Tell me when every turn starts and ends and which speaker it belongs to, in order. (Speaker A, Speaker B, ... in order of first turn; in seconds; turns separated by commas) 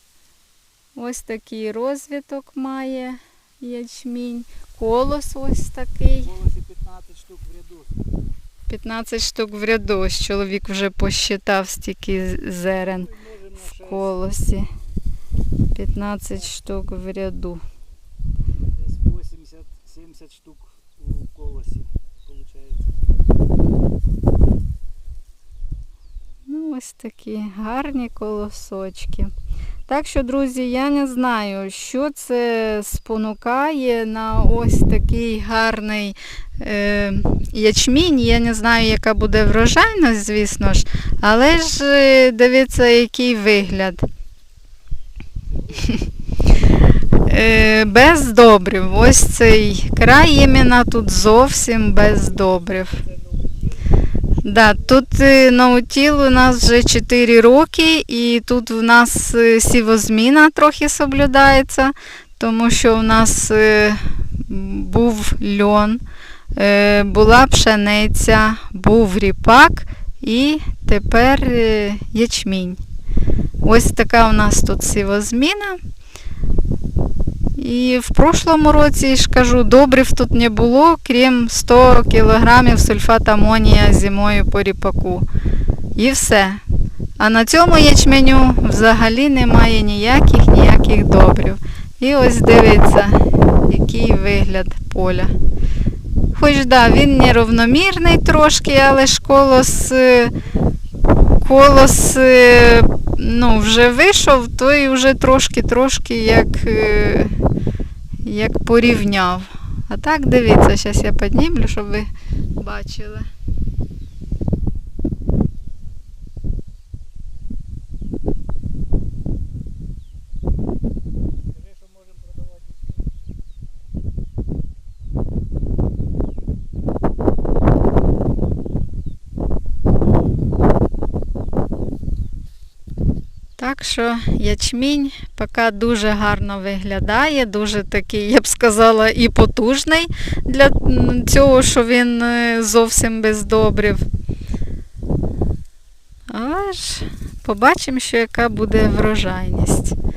Speaker A: 0.9-6.3, Speaker B: 6.3-7.9, Speaker A: 8.7-14.7, Speaker B: 13.1-13.7, Speaker A: 15.7-17.6, Speaker B: 18.8-22.9, Speaker A: 26.5-29.3, Speaker A: 29.9-44.1, Speaker A: 47.2-53.0, Speaker B: 53.0-53.8, Speaker A: 54.4-66.0, Speaker A: 66.5-72.8, Speaker A: 73.6-75.8, Speaker A: 77.5-85.2, Speaker A: 86.0-86.6, Speaker A: 87.2-95.3, Speaker A: 96.3-100.3, Speaker A: 101.4-107.3, Speaker A: 108.2-113.3, Speaker B: 121.7-122.7, Speaker A: 133.6-144.1, Speaker A: 146.3-150.0